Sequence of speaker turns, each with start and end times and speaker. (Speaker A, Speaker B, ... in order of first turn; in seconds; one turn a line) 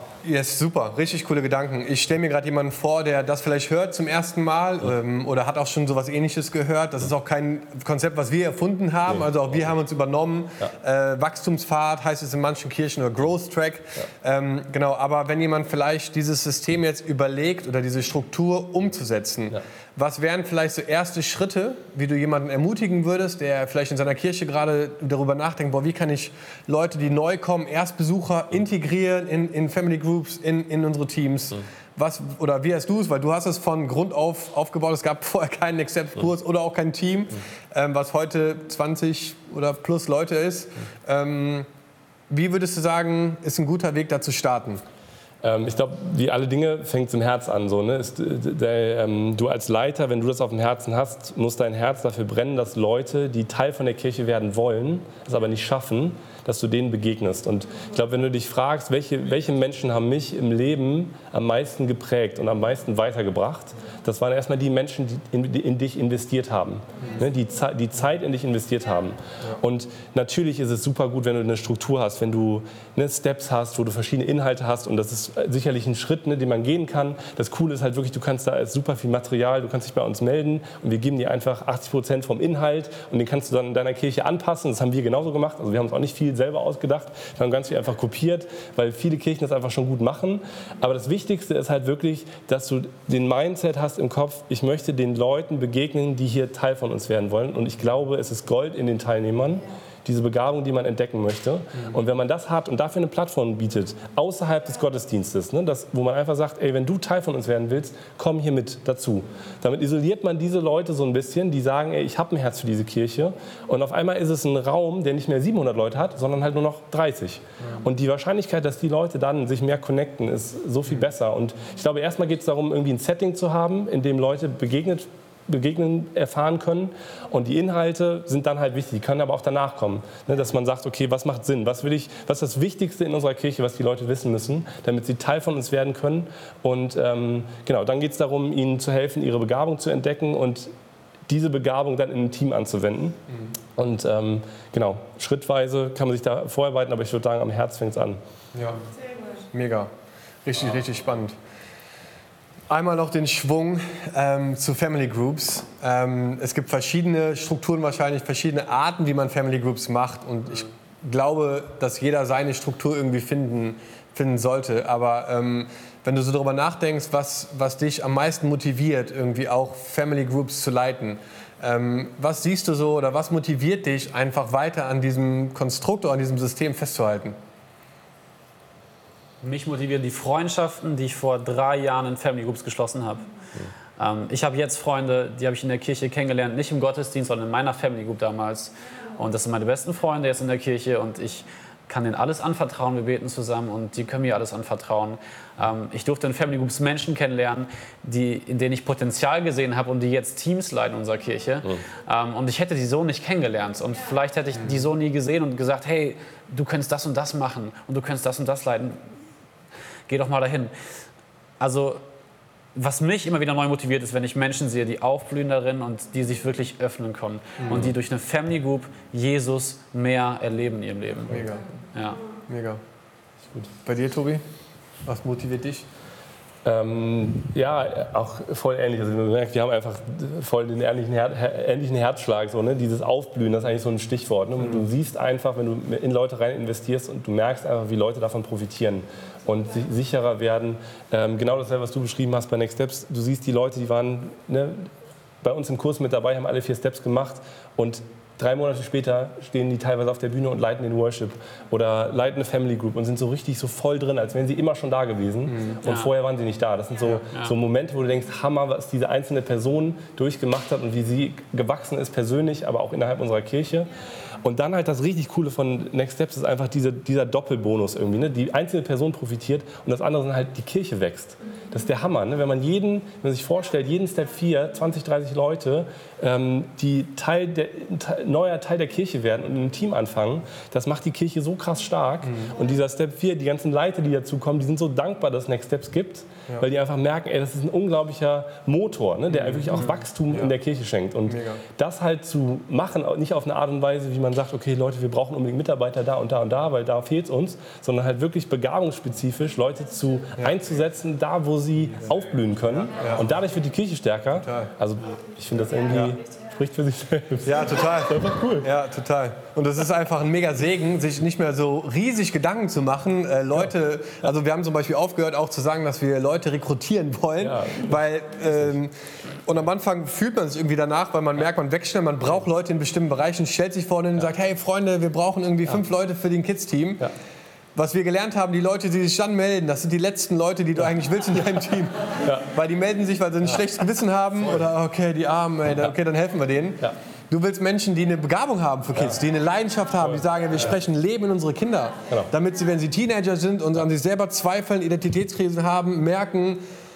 Speaker A: 0.2-41.7
Speaker A: 42.3-44.8
Speaker B: 45.4-140.7
Speaker B: 141.3-143.2
Speaker B: 143.8-148.2
Speaker A: 148.5-148.8
Speaker A: 149.5-149.9
Speaker A: 150.4-151.4
Speaker A: 152.7-177.3
Speaker C: 179.4-183.2
Speaker C: 184.0-209.0
Speaker C: 210.1-210.7
Speaker C: 211.6-212.0
Speaker C: 212.7-221.4
Speaker A: 217.6-217.9
Speaker A: 221.3-221.6
Speaker C: 221.9-222.2
Speaker A: 222.5-222.8
Speaker A: 223.8-224.4
Speaker A: 225.0-225.8
Speaker B: 226.6-244.9
Speaker B: 245.4-308.7
Speaker A: 255.5-255.7
Speaker C: 255.8-256.1
Speaker A: 282.2-282.5
Speaker A: 289.3-290.5
Speaker A: 291.3-291.6
Speaker A: 302.9-303.3
Speaker A: 304.4-304.7
Speaker A: 305.9-306.1
Speaker A: 307.4-318.9
Speaker B: 317.4-318.7
Speaker A: 319.4-327.1
Speaker A: 327.7-346.6
Speaker B: 332.2-332.5